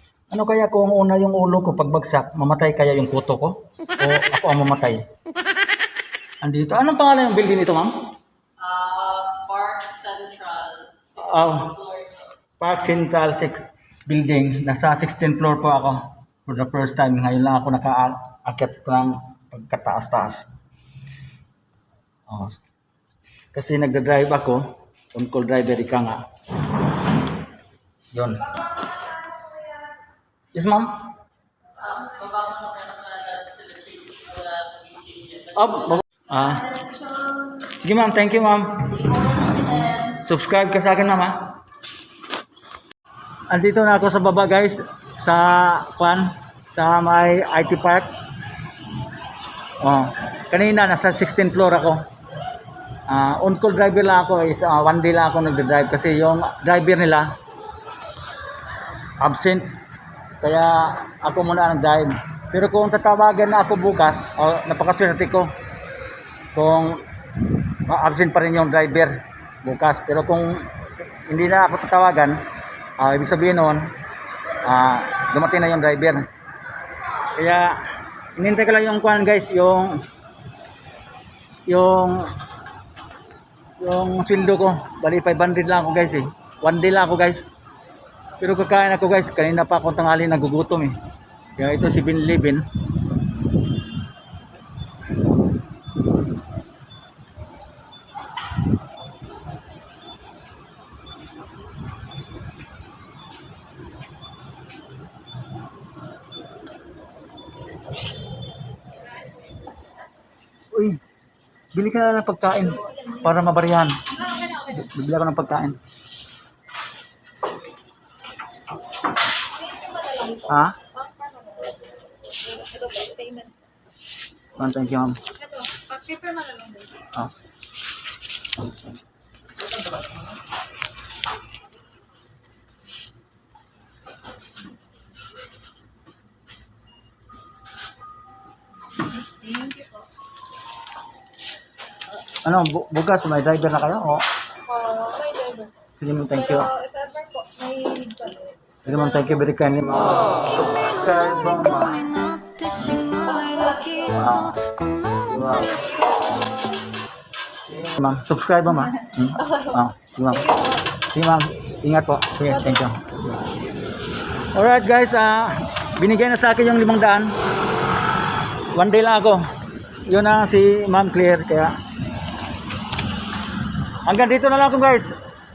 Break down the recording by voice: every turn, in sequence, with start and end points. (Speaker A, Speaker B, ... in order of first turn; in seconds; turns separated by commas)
Speaker A: 0.3-5.0, Speaker A: 6.4-8.0, Speaker B: 8.6-12.3, Speaker A: 11.2-11.8, Speaker A: 12.6-20.4, Speaker A: 22.3-22.6, Speaker A: 23.5-26.2, Speaker A: 28.1-28.6, Speaker A: 30.5-31.0, Speaker B: 31.7-37.5, Speaker A: 35.5-36.8, Speaker A: 37.7-39.2, Speaker B: 39.0-40.1, Speaker A: 40.0-41.5, Speaker A: 43.5-48.1, Speaker A: 49.8-52.0, Speaker A: 53.1-57.3, Speaker A: 59.2-59.7, Speaker A: 60.4-65.5, Speaker A: 66.5-70.7, Speaker A: 71.3-72.4, Speaker A: 73.0-73.9, Speaker A: 74.6-76.3, Speaker A: 77.3-77.8, Speaker A: 78.3-80.0, Speaker A: 81.7-82.3, Speaker A: 83.8-87.5, Speaker A: 88.4-91.0, Speaker A: 91.5-92.7, Speaker A: 110.7-111.0, Speaker A: 111.7-115.8, Speaker C: 119.6-121.7, Speaker A: 120.5-120.8, Speaker C: 122.5-123.5, Speaker A: 124.6-125.2, Speaker C: 125.3-127.0, Speaker C: 139.4-140.0, Speaker A: 142.4-144.2, Speaker C: 144.7-145.7, Speaker A: 145.9-146.7, Speaker C: 146.7-148.7, Speaker A: 148.8-153.3, Speaker A: 154.0-155.9, Speaker A: 157.7-163.2, Speaker A: 164.5-167.3, Speaker A: 168.7-169.4, Speaker A: 170.1-171.7, Speaker A: 174.0-175.1